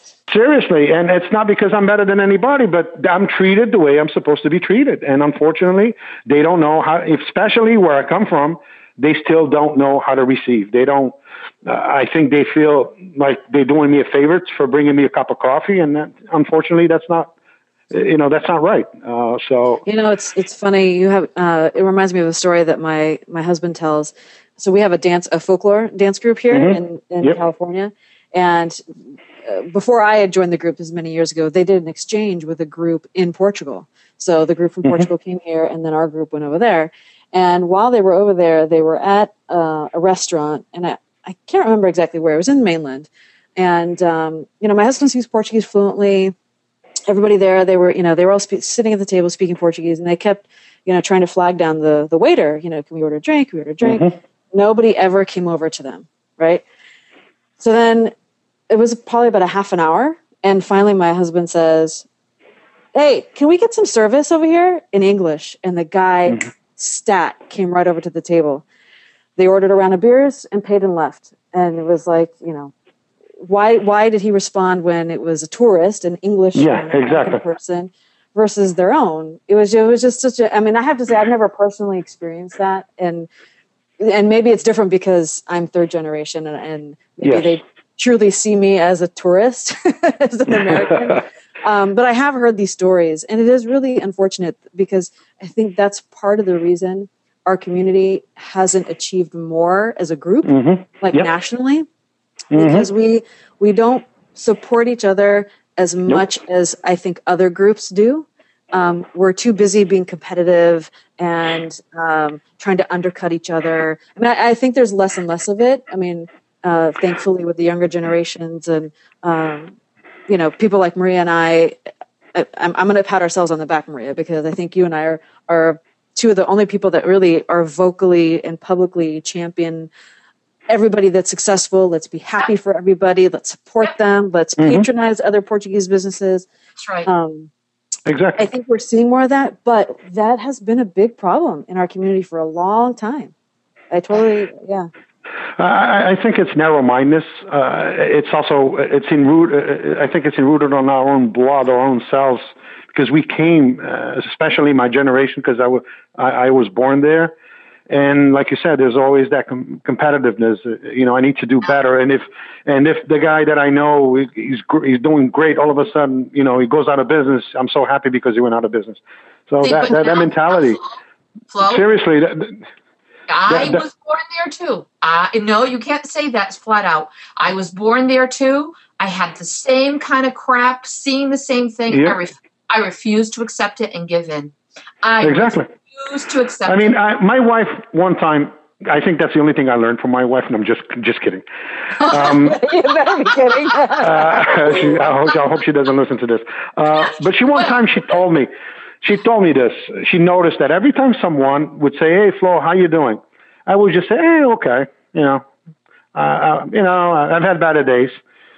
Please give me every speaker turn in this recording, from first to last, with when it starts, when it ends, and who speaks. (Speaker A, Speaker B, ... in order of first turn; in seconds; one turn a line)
Speaker A: 0.3-17.3
Speaker A: 17.9-19.8
Speaker B: 19.9-46.3
Speaker A: 26.5-27.4
Speaker B: 47.1-56.6
Speaker A: 53.8-54.1
Speaker B: 57.6-58.1
Speaker B: 58.7-62.1
Speaker B: 62.9-68.6
Speaker B: 69.4-72.7
Speaker B: 73.4-83.3
Speaker A: 76.5-77.4
Speaker B: 84.0-101.9
Speaker A: 87.2-87.5
Speaker A: 100.5-101.3
Speaker A: 102.5-102.9
Speaker B: 102.5-119.8
Speaker B: 120.3-121.8
Speaker B: 122.3-129.9
Speaker B: 130.7-136.5
Speaker A: 134.6-134.9
Speaker C: 136.8-137.1
Speaker B: 137.1-137.5
Speaker A: 138.1-138.4
Speaker B: 138.4-143.3
Speaker B: 143.9-144.9
Speaker A: 145.6-157.3
Speaker A: 157.9-170.8
Speaker C: 169.6-171.0
Speaker C: 171.5-171.8
Speaker A: 171.6-172.6
Speaker C: 173.3-186.9
Speaker A: 173.5-173.8
Speaker A: 181.9-182.2
Speaker A: 185.2-185.7
Speaker A: 186.7-191.4
Speaker B: 192.0-194.6
Speaker A: 192.0-192.6
Speaker A: 194.0-198.5
Speaker C: 196.9-197.8
Speaker A: 199.0-205.5
Speaker A: 206.2-208.1